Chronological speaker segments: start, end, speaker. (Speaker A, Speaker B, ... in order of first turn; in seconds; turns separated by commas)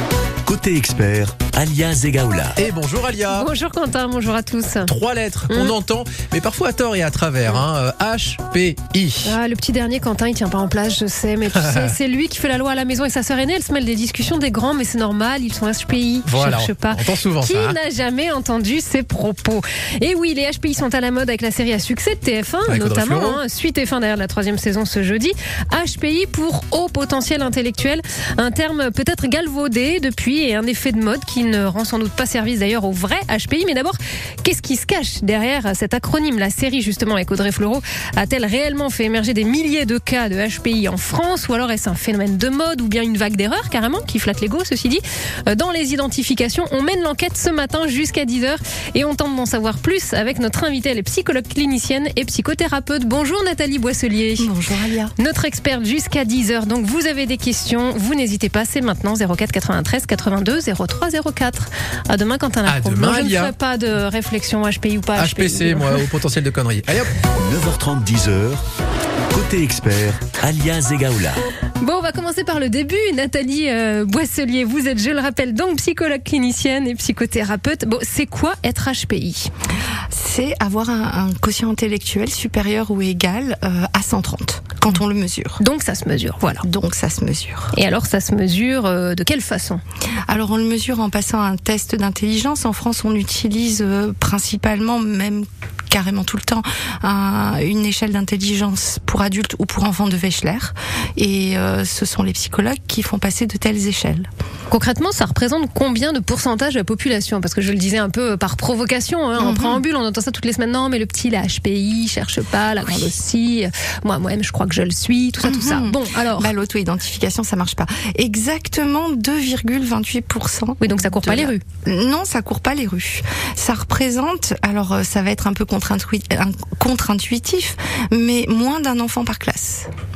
Speaker A: 0.4-2.6, Speaker B: 2.6-3.5, Speaker C: 3.3-4.9, Speaker B: 4.9-9.4, Speaker C: 9.2-54.5, Speaker B: 11.6-11.9, Speaker B: 16.2-17.8, Speaker B: 22.7-23.4, Speaker D: 54.4-55.1, Speaker C: 55.2-66.0, Speaker B: 62.7-63.5, Speaker B: 65.2-67.2, Speaker A: 67.2-68.6, Speaker A: 69.3-71.4, Speaker C: 71.8-79.5, Speaker D: 80.1-85.6, Speaker C: 85.6-86.7, Speaker D: 86.6-87.7, Speaker C: 87.7-89.8, Speaker D: 90.3-104.3, Speaker C: 104.7-116.5, Speaker D: 109.4-109.8, Speaker D: 115.4-129.9, Speaker C: 120.8-121.6